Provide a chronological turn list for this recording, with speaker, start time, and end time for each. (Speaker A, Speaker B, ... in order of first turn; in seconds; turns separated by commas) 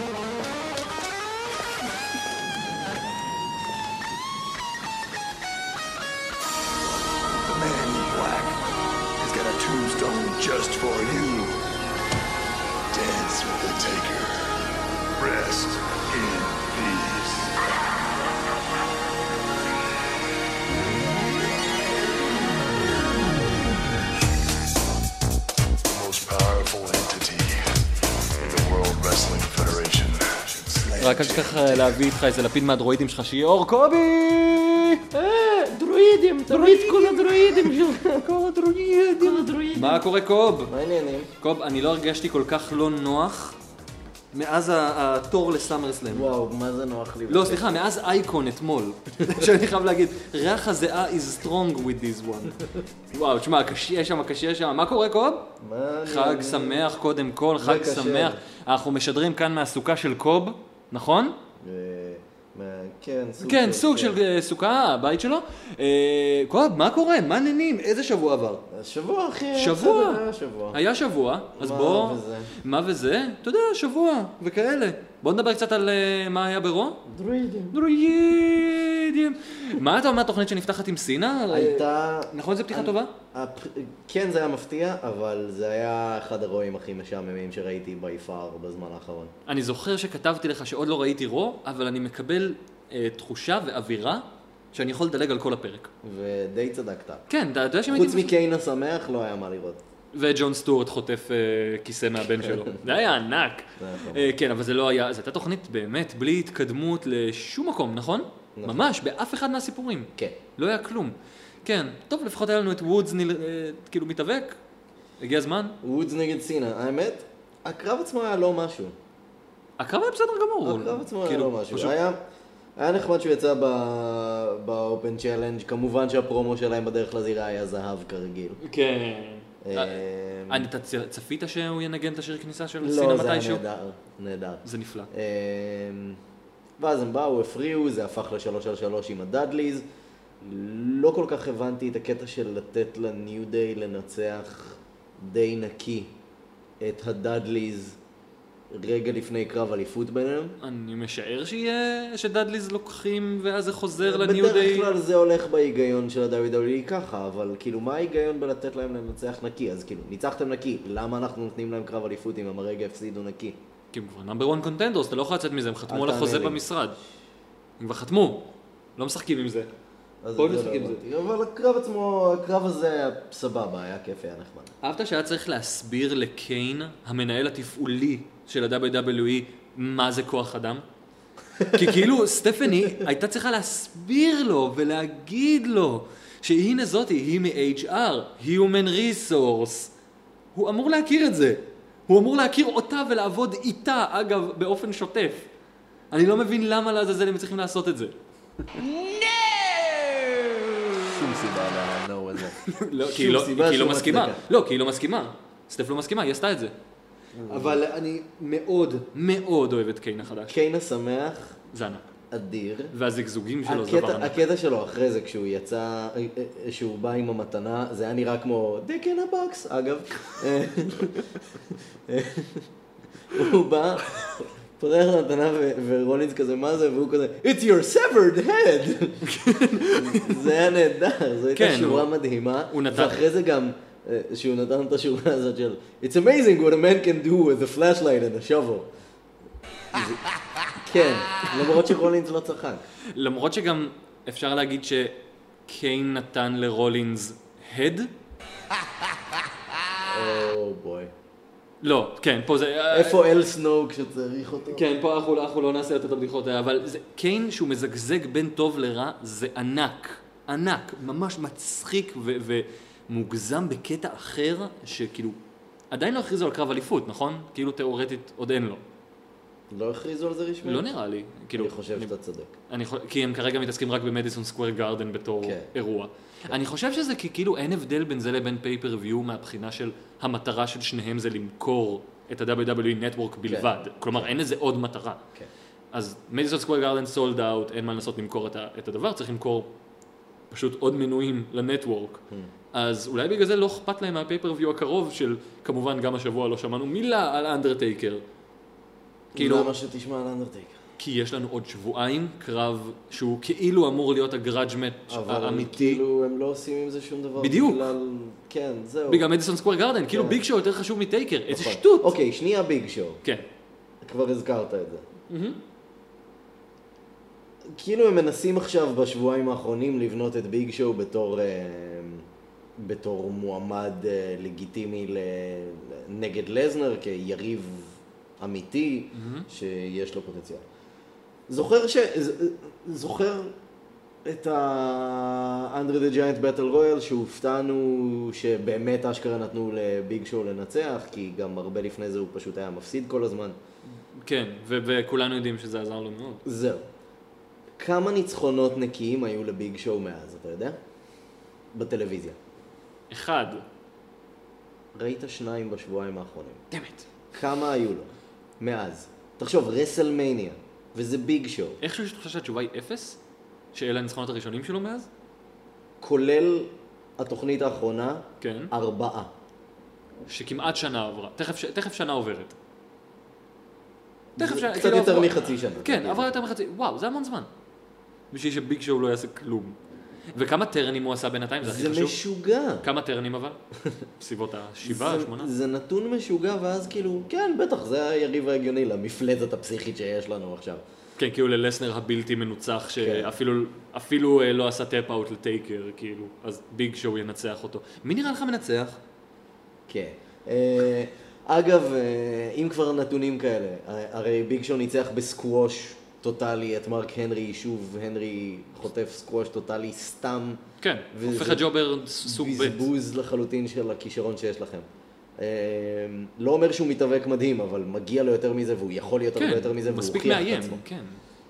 Speaker A: 7.5-8.6, Speaker A: 9.2-11.5, Speaker A: 12.9-17.6, Speaker A: 25.9-27.8, Speaker A: 28.4-31.9, Speaker B: 31.0-35.0, Speaker C: 35.1-38.3, Speaker B: 36.5-40.7, Speaker C: 39.2-40.0, Speaker C: 40.7-41.3, Speaker B: 41.4-43.5, Speaker B: 44.3-46.3, Speaker C: 46.1-47.8, Speaker B: 47.3-52.6, Speaker B: 53.1-55.5, Speaker C: 55.6-57.0, Speaker B: 56.0-61.4, Speaker C: 57.6-58.4, Speaker C: 61.6-64.2, Speaker B: 63.4-68.6, Speaker C: 68.7-70.8, Speaker B: 69.5-77.0, Speaker C: 71.5-72.5, Speaker C: 77.0-77.8, Speaker B: 77.7-83.1, Speaker C: 81.5-89.3, Speaker B: 89.5-95.9, Speaker C: 96.0-97.2, Speaker B: 97.3-98.3, Speaker C: 97.9-99.8, Speaker B: 100.1-114.6, Speaker C: 102.3-103.0, Speaker C: 103.8-104.3, Speaker C: 108.5-108.8, Speaker B: 115.2-115.8, Speaker C: 115.8-118.9, Speaker B: 119.8-122.0, Speaker C: 120.6-122.2, Speaker C: 122.8-128.6, Speaker B: 128.6-133.6, Speaker C: 129.6-130.7, Speaker C: 132.8-136.2, Speaker B: 134.6-135.1, Speaker C: 136.8-139.8, Speaker C: 140.4-146.1, Speaker C: 146.8-148.0, Speaker C: 148.7-150.6, Speaker B: 150.6-154.9, Speaker C: 154.0-163.6, Speaker B: 163.9-167.0, Speaker C: 165.9-166.6, Speaker B: 167.8-169.7, Speaker C: 170.2-174.7, Speaker B: 170.3-171.0, Speaker B: 174.8-180.8, Speaker C: 181.6-182.0, Speaker B: 181.6-189.9, Speaker B: 190.5-195.5, Speaker B: 196.1-198.1, Speaker C: 198.8-204.4, Speaker B: 202.6-206.7, Speaker C: 207.3-207.8, Speaker B: 207.5-210.6, Speaker C: 210.5-211.6, Speaker B: 211.7-212.1, Speaker C: 212.3-212.9, Speaker B: 212.9-214.4, Speaker C: 213.6-222.7, Speaker C: 223.3-229.3, Speaker B: 229.2-230.5, Speaker C: 229.8-238.9, Speaker B: 231.5-232.1, Speaker B: 232.7-233.2, Speaker C: 239.9-240.2, Speaker C: 240.7-242.8, Speaker B: 243.1-248.1, Speaker C: 250.0-251.1, Speaker B: 251.8-253.2, Speaker C: 252.9-254.8, Speaker B: 254.7-265.4, Speaker B: 265.9-268.8, Speaker C: 269.7-270.9, Speaker B: 270.6-272.1, Speaker C: 271.5-272.6, Speaker B: 272.7-285.2, Speaker C: 275.4-275.7, Speaker C: 283.5-284.3, Speaker B: 285.9-289.7, Speaker B: 290.5-292.2, Speaker B: 292.7-298.2, Speaker B: 299.3-299.7, Speaker C: 299.3-300.8, Speaker B: 301.0-306.0, Speaker C: 305.1-309.3, Speaker B: 307.4-307.9, Speaker B: 309.1-312.1, Speaker C: 310.1-310.4, Speaker C: 311.5-313.2, Speaker C: 314.0-315.0, Speaker B: 315.3-315.6, Speaker C: 317.7-322.2, Speaker C: 322.8-330.6, Speaker B: 329.1-329.5, Speaker C: 331.5-333.5, Speaker C: 334.2-343.6, Speaker B: 344.1-346.4, Speaker C: 346.4-346.9, Speaker C: 347.8-350.8, Speaker C: 351.7-352.4, Speaker B: 353.1-353.6, Speaker C: 354.9-356.6, Speaker B: 356.7-357.1, Speaker C: 357.3-361.8, Speaker B: 361.8-363.2, Speaker B: 363.7-365.1, Speaker C: 366.0-369.3, Speaker B: 368.4-368.7, Speaker B: 370.3-372.6, Speaker C: 374.4-376.4, Speaker B: 374.4-377.5, Speaker B: 378.3-379.8, Speaker B: 380.3-382.2, Speaker C: 381.6-382.9, Speaker B: 382.8-383.6, Speaker B: 384.2-385.5, Speaker C: 384.8-390.8, Speaker B: 391.2-399.0, Speaker C: 393.0-393.3, Speaker C: 399.9-410.6, Speaker B: 410.8-412.8, Speaker C: 411.1-411.7, Speaker C: 412.2-414.9, Speaker C: 415.4-420.8, Speaker B: 419.4-421.2